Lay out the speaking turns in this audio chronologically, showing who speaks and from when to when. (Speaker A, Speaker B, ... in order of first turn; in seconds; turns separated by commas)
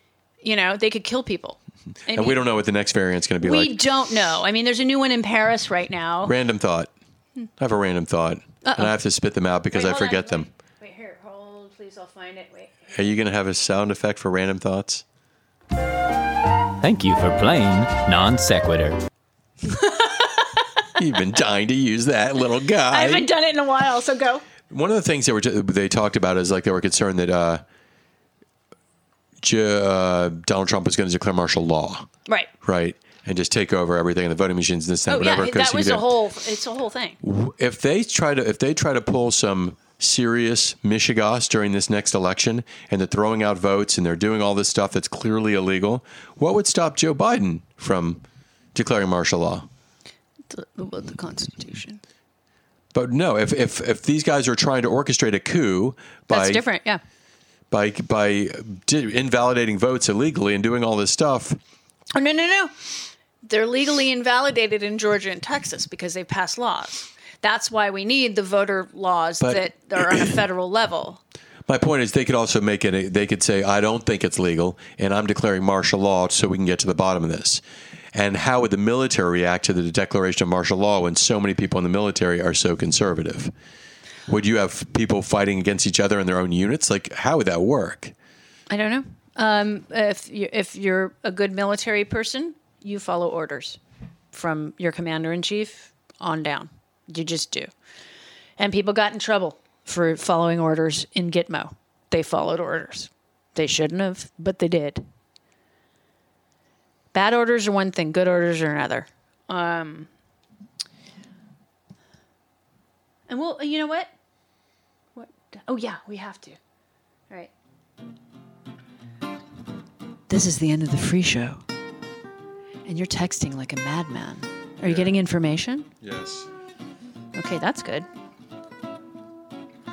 Speaker A: 0.4-2.4, Speaker B: 2.1-3.8, Speaker A: 3.4-6.4, Speaker B: 6.2-6.9, Speaker B: 7.6-10.5, Speaker A: 8.6-9.0, Speaker A: 9.7-12.8, Speaker B: 12.9-15.0, Speaker C: 16.8-19.0, Speaker A: 19.6-20.7, Speaker B: 21.0-23.3, Speaker A: 22.9-24.4, Speaker B: 24.7-27.6, Speaker B: 29.4-32.1, Speaker B: 32.6-36.1, Speaker A: 35.1-37.2, Speaker B: 37.2-48.2, Speaker B: 48.8-49.7, Speaker A: 50.5-52.0, Speaker B: 52.9-56.6, Speaker A: 56.3-57.0, Speaker B: 57.7-61.6, Speaker A: 62.1-62.8, Speaker A: 63.5-71.2, Speaker B: 71.7-77.6, Speaker B: 78.1-83.5, Speaker B: 84.3-88.1, Speaker A: 88.7-93.8, Speaker A: 94.3-97.7, Speaker A: 98.6-105.0, Speaker A: 107.1-110.1, Speaker A: 113.3-114.1, Speaker A: 115.2-116.6, Speaker A: 120.3-121.6, Speaker A: 122.9-125.9, Speaker B: 124.8-125.2, Speaker B: 126.0-126.5, Speaker A: 127.3-128.1